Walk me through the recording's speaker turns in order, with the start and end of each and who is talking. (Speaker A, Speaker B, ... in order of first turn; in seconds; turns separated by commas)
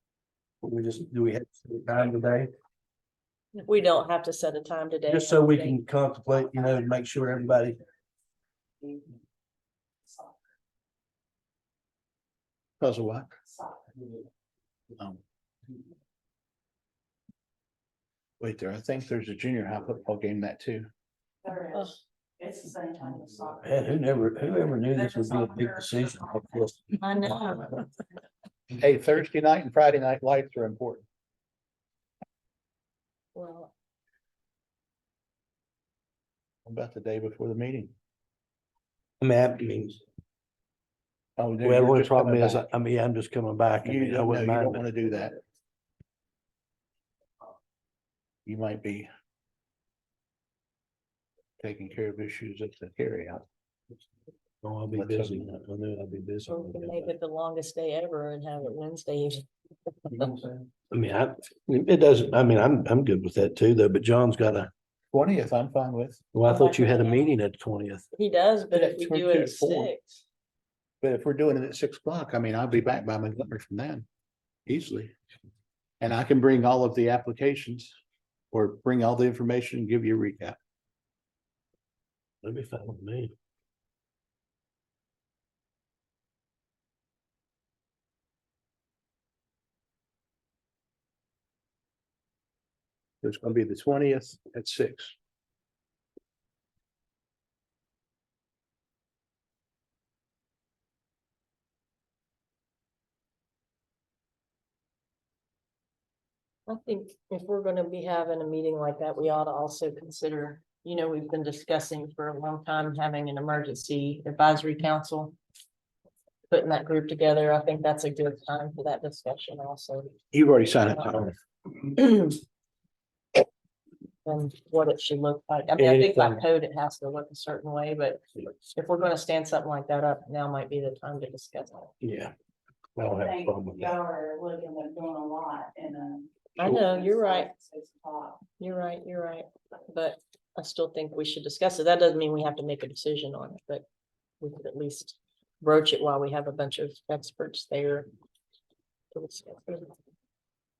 Speaker A: 0.6-2.5, Speaker B: 3.5-5.8, Speaker A: 5.1-7.8, Speaker C: 12.8-13.3, Speaker C: 18.4-20.9, Speaker D: 21.4-23.6, Speaker A: 23.6-26.9, Speaker D: 25.1-25.7, Speaker B: 27.0-27.8, Speaker C: 28.7-31.1, Speaker B: 33.3-33.7, Speaker C: 36.6-37.9, Speaker A: 39.2-40.0, Speaker C: 41.4-42.7, Speaker A: 41.6-44.8, Speaker C: 43.8-45.4, Speaker C: 48.5-49.1, Speaker C: 51.6-53.4, Speaker A: 54.6-57.1, Speaker C: 54.9-55.5, Speaker B: 56.5-59.5, Speaker A: 60.9-64.7, Speaker C: 65.1-66.2, Speaker A: 66.3-68.1, Speaker B: 66.5-67.2, Speaker B: 68.1-70.2, Speaker C: 68.7-69.9, Speaker C: 71.0-74.1, Speaker C: 74.7-75.1, Speaker C: 76.0-77.9, Speaker C: 78.5-80.6, Speaker A: 82.4-83.3, Speaker C: 93.2-95.1, Speaker B: 106.7-115.3, Speaker B: 116.5-120.1, Speaker C: 120.3-121.3, Speaker B: 121.9-122.4, Speaker B: 124.2-131.9, Speaker A: 125.8-126.4, Speaker A: 132.0-132.3, Speaker A: 132.9-133.9, Speaker D: 133.2-138.4, Speaker B: 136.6-137.5, Speaker B: 138.6-143.8, Speaker B: 144.4-148.1, Speaker B: 149.1-149.9